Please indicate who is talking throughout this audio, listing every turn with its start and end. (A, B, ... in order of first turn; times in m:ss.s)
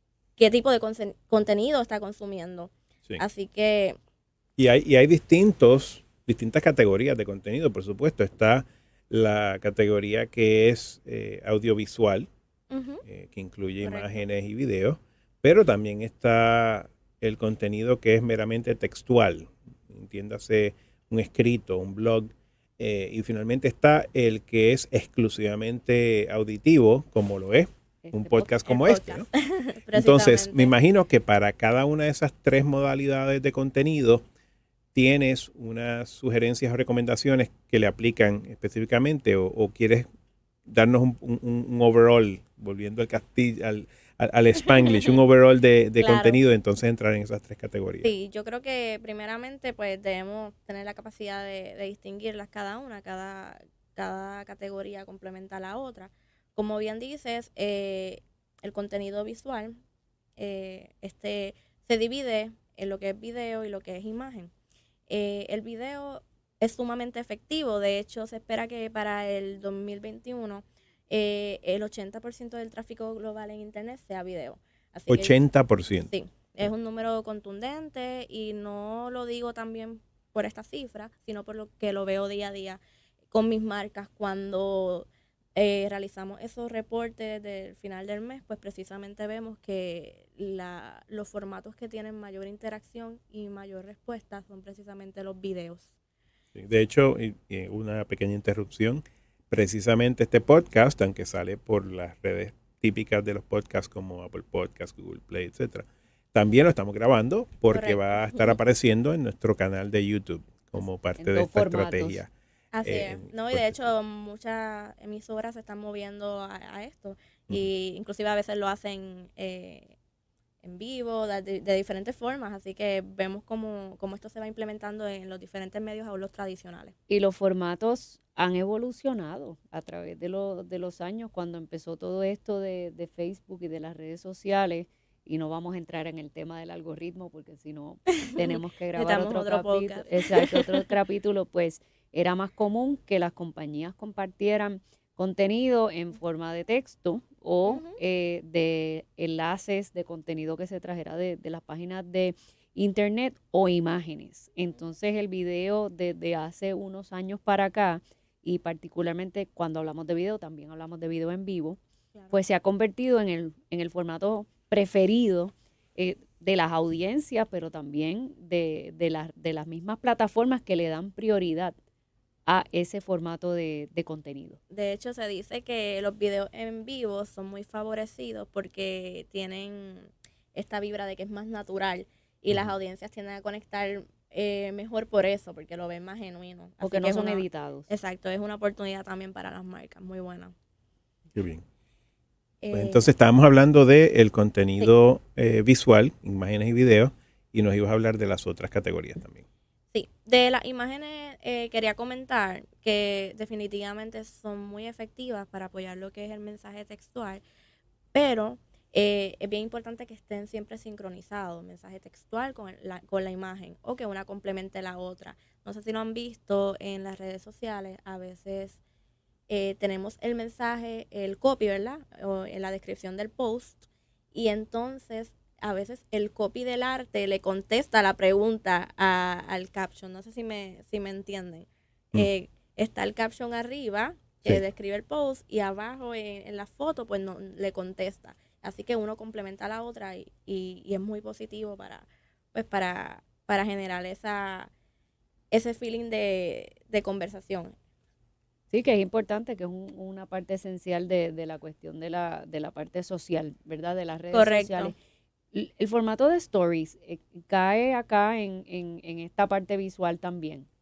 0:00.4-0:04.0 A
0:04.6-0:12.3 B
0:12.7-0:13.0 A
0:13.1-0:29.3 B
0:13.8-0:14.2 A
0:28.0-0:28.5 C
0:28.7-0:30.7 A
0:29.9-0:34.2 B
0:35.0-0:40.1 B
0:40.7-0:48.1 B
0:46.0-0:46.4 A
0:48.0-0:59.8 A
1:00.4-1:04.5 A
1:05.1-1:15.4 A
1:15.1-1:16.1 B
1:16.0-1:22.8 A
1:23.3-1:35.9 A
1:36.6-1:52.3 B
1:47.7-1:48.6 A
1:51.2-1:52.2 C
1:52.7-1:59.9 A
1:52.8-1:53.8 B
2:00.6-2:06.9 A
2:07.1-2:41.8 C
2:18.2-2:20.9 A
2:27.7-2:28.0 A
2:42.3-2:51.8 C
2:52.5-2:54.6 C
2:54.7-3:10.5 A
3:06.8-3:07.9 C
3:11.4-3:11.6 B
3:12.6-3:13.0 A
3:12.7-3:19.4 B
3:19.9-3:27.4 A
3:28.1-3:38.8 A
3:39.5-3:43.8 A
3:44.3-4:04.7 A
4:05.5-4:07.8 A
4:08.7-4:14.9 C
4:14.3-4:14.9 A
4:15.5-4:20.7 C